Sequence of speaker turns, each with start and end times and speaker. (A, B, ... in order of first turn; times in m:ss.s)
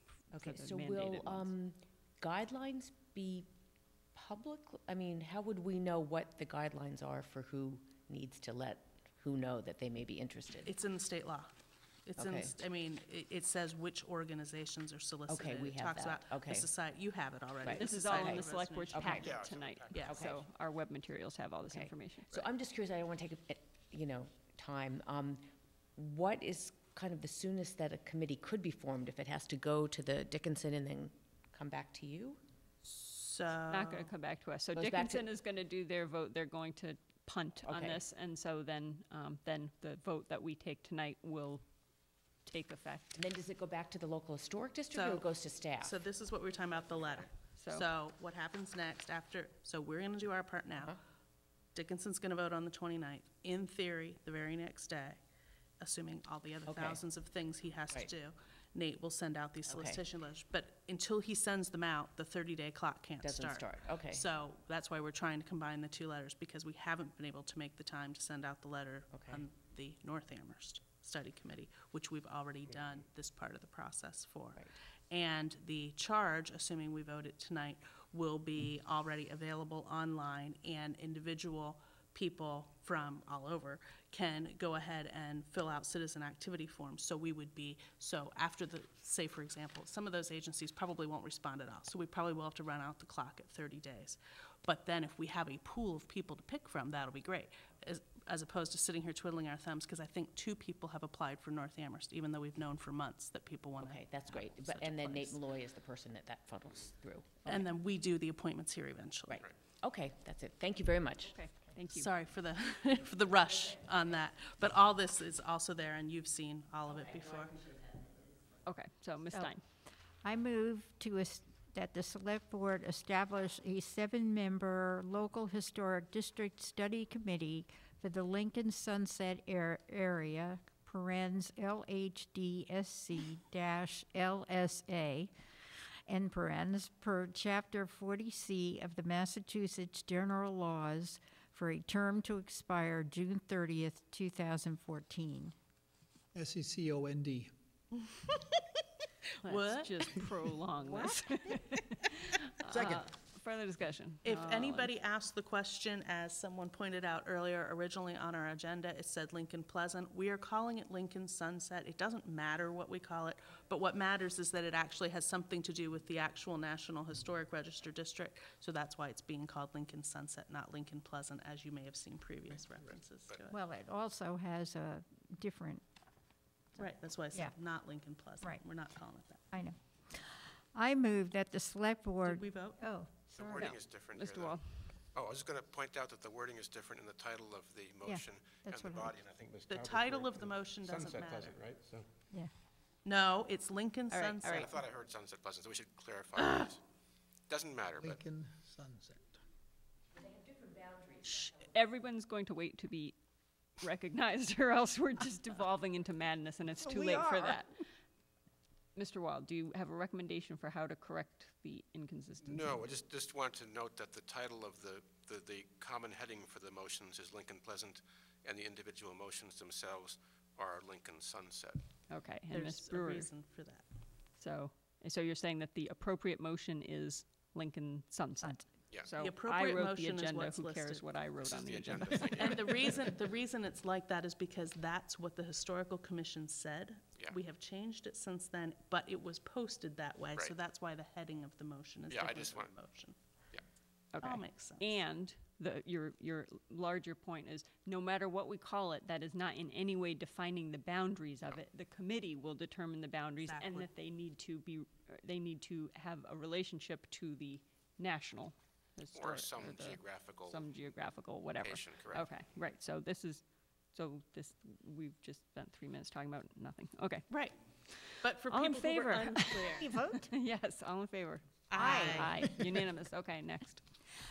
0:00.3-0:01.5 A
0:00.3-0:03.5 B
0:04.1-0:10.7 B
0:10.6-0:11.5 C
0:12.0-0:19.3 C
0:12.2-0:12.5 B
0:15.3-0:16.7 B
0:17.6-0:19.3 B
0:17.6-0:22.5 A
0:19.1-0:20.1 D
0:19.9-0:20.2 C
0:20.1-0:20.4 B
0:21.7-0:32.4 B
0:32.8-0:34.1 C
0:33.7-0:41.6 A
0:34.7-0:35.3 B
0:37.6-0:38.0 B
0:42.4-0:43.2 A
0:43.1-0:46.0 B
0:44.9-0:45.2 C
0:45.8-0:51.0 C
0:47.6-0:47.8 A
0:51.7-0:55.2 C
0:55.8-1:45.4 C
0:56.7-0:57.0 B
0:59.6-1:00.0 B
1:03.2-1:04.2 B
1:09.1-1:09.4 B
1:43.8-1:47.7 B
1:47.4-1:49.5 C
1:49.3-1:51.4 B
1:51.2-1:52.1 A
1:51.9-1:57.6 C
1:57.4-1:57.8 B
1:58.6-1:59.6 A
2:00.2-2:15.3 E
2:16.1-2:25.5 E
2:26.3-2:27.5 F
2:28.1-2:28.6 C
2:29.4-2:34.9 A
2:29.4-2:30.3 C
2:34.2-2:53.6 C
2:53.5-2:55.8 E
2:56.8-2:59.5 C
2:59.5-3:03.7 E
3:02.2-3:02.9 C
3:03.3-3:04.6 D
3:03.6-3:04.9 A
3:05.1-3:12.0 D
3:08.0-3:09.2 E
3:09.7-3:11.6 C
3:13.0-3:14.7 C
3:14.1-3:14.8 A
3:14.5-3:16.8 D
3:17.5-3:18.2 D
3:18.0-3:19.4 F
3:20.1-3:21.7 B
3:21.7-3:23.2 A
3:23.8-3:27.8 A
3:26.9-3:27.5 E
3:29.0-3:32.8 A
3:32.4-3:41.8 D
3:42.1-3:43.3 A
3:42.5-3:43.8 C
3:44.4-3:52.6 A
3:49.2-3:51.0 C
3:51.4-3:53.1 D
3:52.4-4:03.1 C
4:02.1-4:02.7 D
4:04.1-4:27.3 A
4:04.2-4:04.9 C
4:13.4-4:13.9 C
4:19.1-4:20.6 D
4:21.6-4:22.2 D
4:27.3-4:27.6 C
4:27.9-4:33.8 A
4:28.1-4:29.9 C
4:29.7-4:30.3 E
4:31.7-4:32.5 C
4:31.7-4:32.4 E